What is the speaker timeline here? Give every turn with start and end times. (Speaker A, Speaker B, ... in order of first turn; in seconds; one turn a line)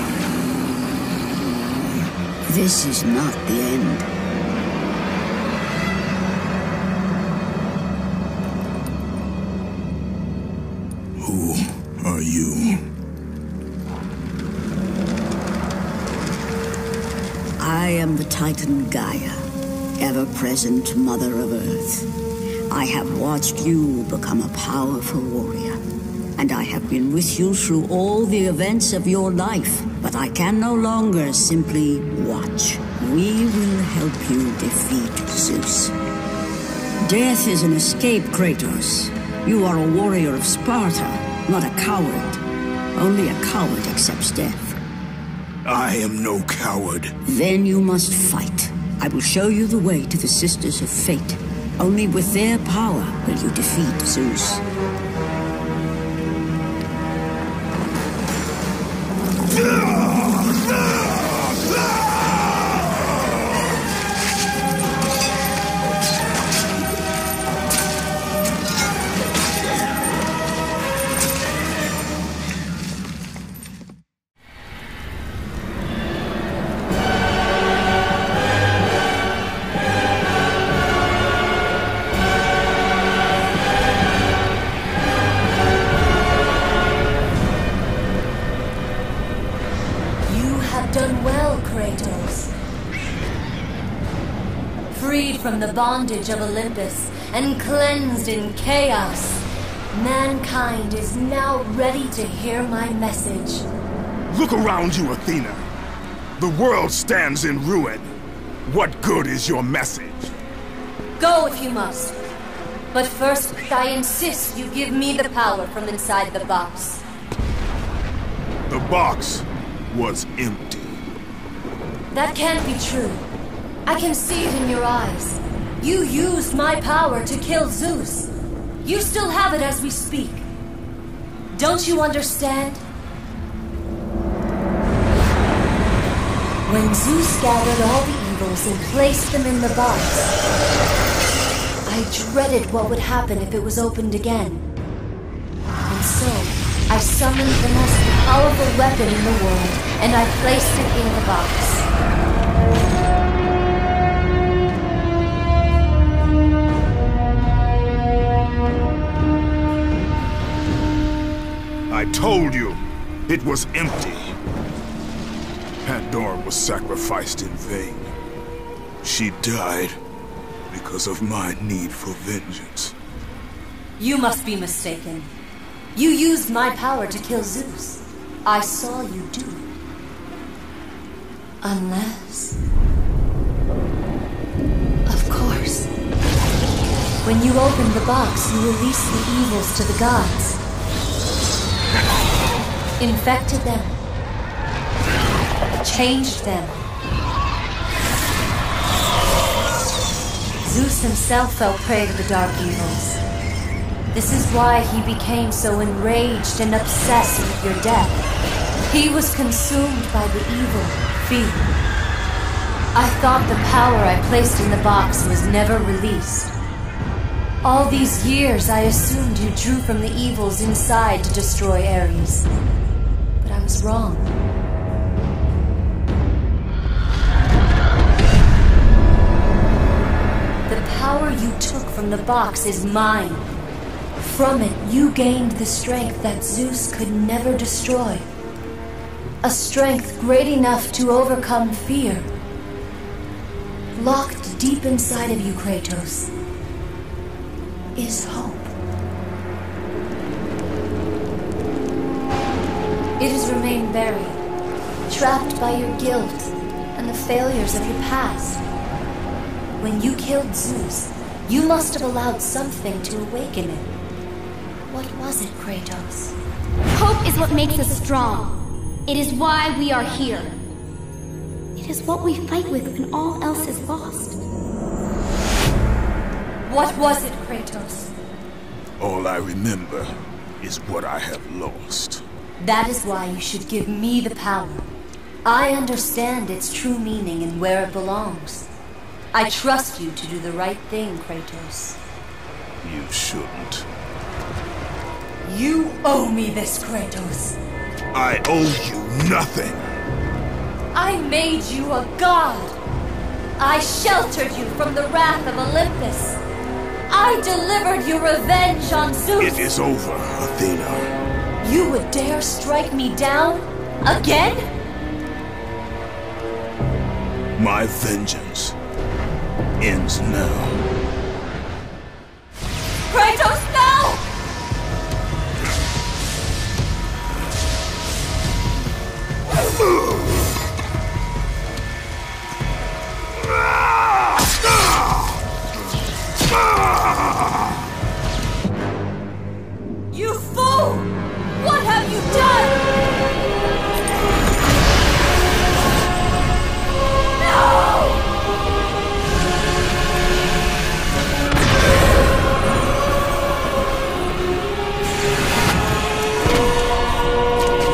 Speaker A: 2.5-4.1
Speaker B: 11.2-12.8
Speaker A: 17.6-22.1
Speaker A: 22.7-25.8
Speaker A: 26.4-35.9
Speaker A: 37.0-42.4
Speaker A: 43.0-44.8
Speaker B: 45.6-47.1
Speaker A: 47.2-54.6
Speaker C: 90.3-92.5
Speaker C: 94.9-103.7
Speaker B: 104.3-105.7
Speaker B: 106.4-108.1
Speaker B: 108.7-110.3
Speaker C: 111.2-112.2
Speaker C: 112.9-117.0
Speaker B: 118.7-121.0
Speaker C: 122.1-123.3
Speaker C: 123.9-128.3
Speaker C: 128.8-130.5
Speaker C: 131.5-132.8
Speaker C: 136.7-140.4
Speaker C: 141.8-144.7
Speaker C: 145.9-151.9
Speaker B: 161.9-164.4
Speaker B: 165.8-168.1
Speaker B: 169.0-170.0
Speaker B: 170.7-172.9
Speaker C: 174.0-175.3
Speaker C: 175.9-179.7
Speaker C: 181.6-182.6
Speaker C: 185.1-185.9
Speaker C: 187.2-190.6
Speaker C: 193.0-194.0
Speaker C: 195.8-196.8
Speaker C: 200.6-203.2
Speaker C: 204.1-208.2
Speaker C: 208.9-211.8
Speaker C: 212.9-216.5
Speaker C: 217.6-222.5
Speaker C: 223.4-224.3
Speaker C: 230.7-233.5
Speaker C: 234.2-238.3
Speaker C: 239.4-242.3
Speaker C: 243.9-246.3
Speaker C: 247.9-248.7
Speaker C: 253.2-254.4
Speaker C: 255.1-258.6
Speaker C: 259.8-263.9
Speaker C: 264.9-266.4
Speaker D: 266.9-270.6
Speaker D: 271.8-274.4
Speaker C: 276.7-278.1
Speaker B: 279.0-282.2
Speaker C: 282.6-284.9
Speaker C: 285.4-288.7
Speaker C: 289.3-292.0
Speaker B: 292.8-293.9
Speaker C: 295.4-297.6
Speaker B: 298.1-299.9
Speaker C: 300.9-302.8
Speaker C: 303.6-306.4
Speaker C: 307.1-309.6
Speaker B: 309.4-311.2
Speaker C: 311.6-314.7
Speaker B: 317.6-318.8
Speaker B: 319.8-320.8
Speaker C: 323.1-324.2
Speaker C: 340.1-342.8
Speaker C: 347.4-348.2